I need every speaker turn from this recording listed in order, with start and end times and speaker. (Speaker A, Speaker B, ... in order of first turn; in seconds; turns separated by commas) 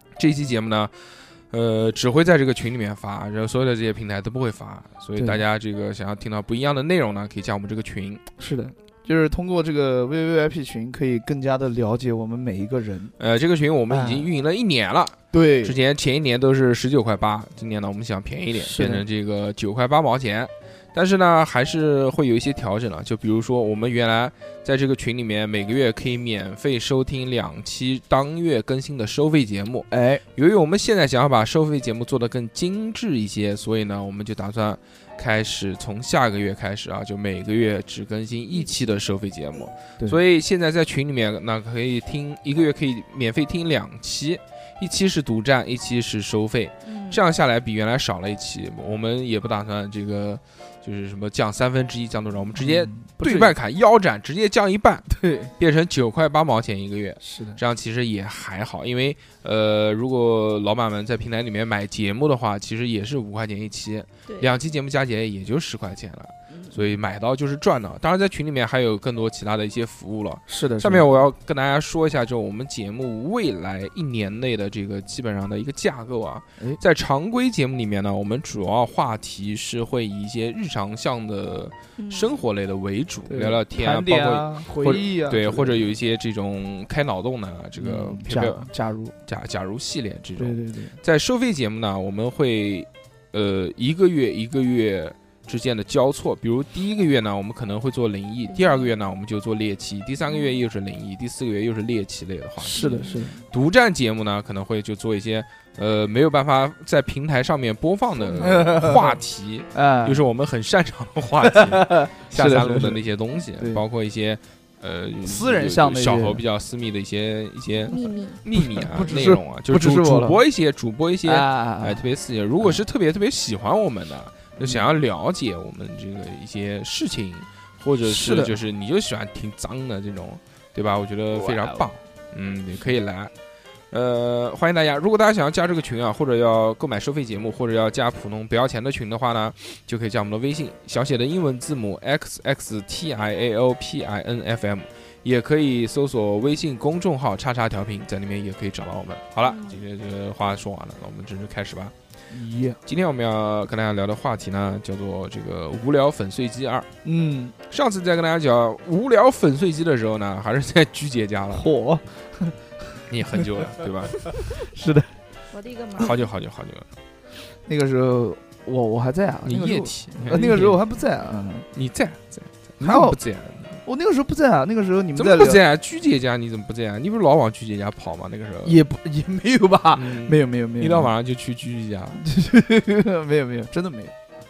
Speaker A: 0.2-8.2, Speaker B: 5.2-5.4, Speaker B: 8.4-13.2, Speaker A: 13.2-88.7, Speaker B: 13.9-14.3, Speaker B: 15.3-15.8, Speaker B: 18.6-19.0, Speaker B: 29.9-30.2, Speaker C: 46.9-47.2, Speaker B: 52.6-53.5, Speaker B: 55.1-55.5, Speaker B: 57.2-57.6, Speaker C: 64.3-64.5, Speaker C: 66.5-66.9, Speaker B: 70.5-71.1, Speaker C: 82.0-82.4, Speaker B: 83.3-85.9, Speaker B: 87.8-89.2, Speaker A: 89.3-102.9, Speaker B: 90.4-91.0, Speaker B: 102.7-103.4, Speaker C: 102.7-103.2, Speaker A: 103.5-133.3, Speaker B: 108.4-109.2, Speaker B: 109.7-110.2, Speaker B: 111.4-113.0, Speaker B: 113.6-113.8, Speaker B: 115.2-116.4, Speaker C: 117.9-118.4, Speaker B: 118.5-120.4, Speaker B: 121.2-122.1, Speaker B: 124.6-124.9, Speaker B: 128.0-128.6, Speaker B: 131.3-131.9, Speaker A: 133.9-151.9, Speaker C: 149.4-149.8, Speaker B: 152.3-152.8, Speaker A: 152.8-156.9, Speaker B: 157.0-157.6, Speaker A: 157.7-161.7, Speaker B: 161.5-165.1, Speaker A: 163.1-164.3, Speaker C: 165.5-166.2, Speaker A: 166.0-166.9, Speaker B: 167.7-171.7, Speaker A: 169.5-170.8, Speaker A: 171.7-173.8, Speaker B: 172.8-173.2, Speaker B: 173.8-175.6, Speaker A: 175.2-178.8, Speaker B: 178.6-181.1, Speaker A: 179.9-182.2, Speaker B: 182.2-184.1